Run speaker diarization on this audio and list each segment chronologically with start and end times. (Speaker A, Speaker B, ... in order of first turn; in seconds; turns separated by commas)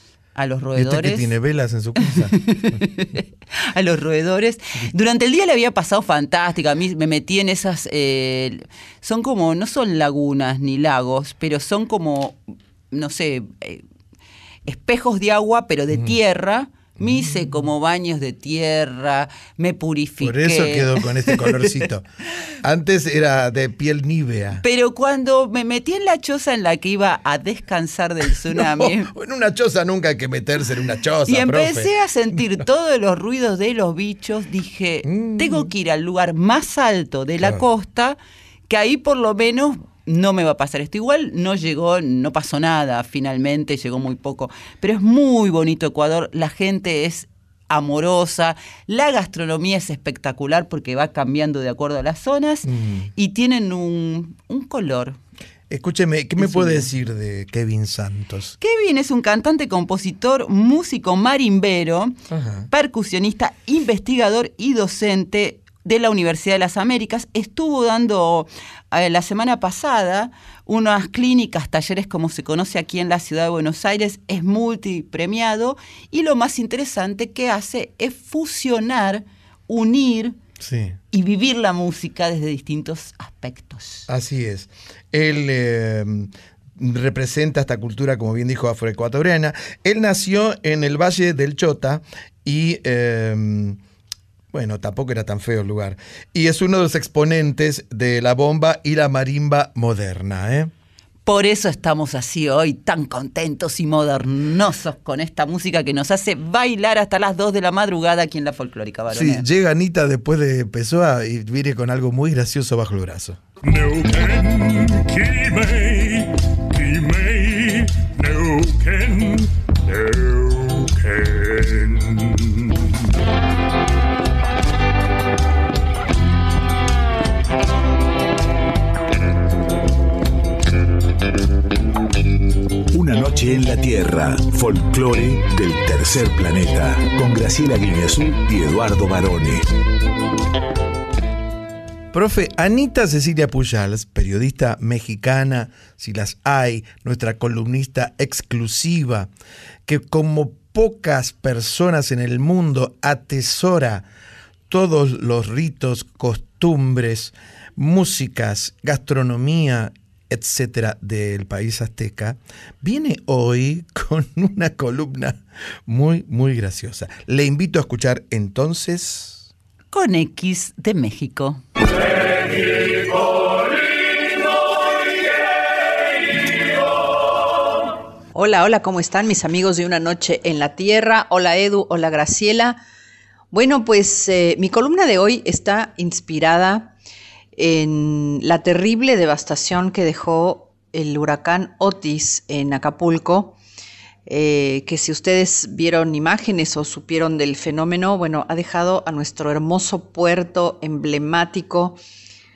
Speaker A: 0.3-1.3, Speaker B: 0.8-2.3, Speaker A: 2.0-12.4, Speaker A: 12.9-13.8, Speaker A: 14.7-21.7, Speaker B: 17.0-17.2, Speaker B: 20.2-22.1, Speaker B: 22.6-24.6, Speaker A: 24.6-29.1, Speaker B: 28.5-32.6, Speaker A: 31.3-38.2, Speaker B: 35.0-35.7, Speaker A: 38.7-55.2, Speaker B: 52.6-53.1, Speaker B: 55.7-58.5, Speaker A: 56.4-56.9, Speaker A: 58.6-62.1, Speaker B: 62.3-62.7, Speaker A: 62.7-80.4, Speaker B: 80.6-81.0, Speaker A: 81.1-84.1, Speaker B: 84.1-93.8, Speaker B: 94.5-100.7, Speaker A: 101.2-109.4, Speaker B: 109.1-113.4, Speaker C: 113.6-122.9, Speaker D: 132.9-139.7, Speaker B: 142.1-149.3, Speaker B: 149.8-154.1, Speaker B: 154.7-169.5, Speaker A: 169.9-171.6, Speaker E: 178.3-182.8, Speaker E: 183.5-186.9, Speaker E: 187.6-193.6, Speaker E: 194.3-202.0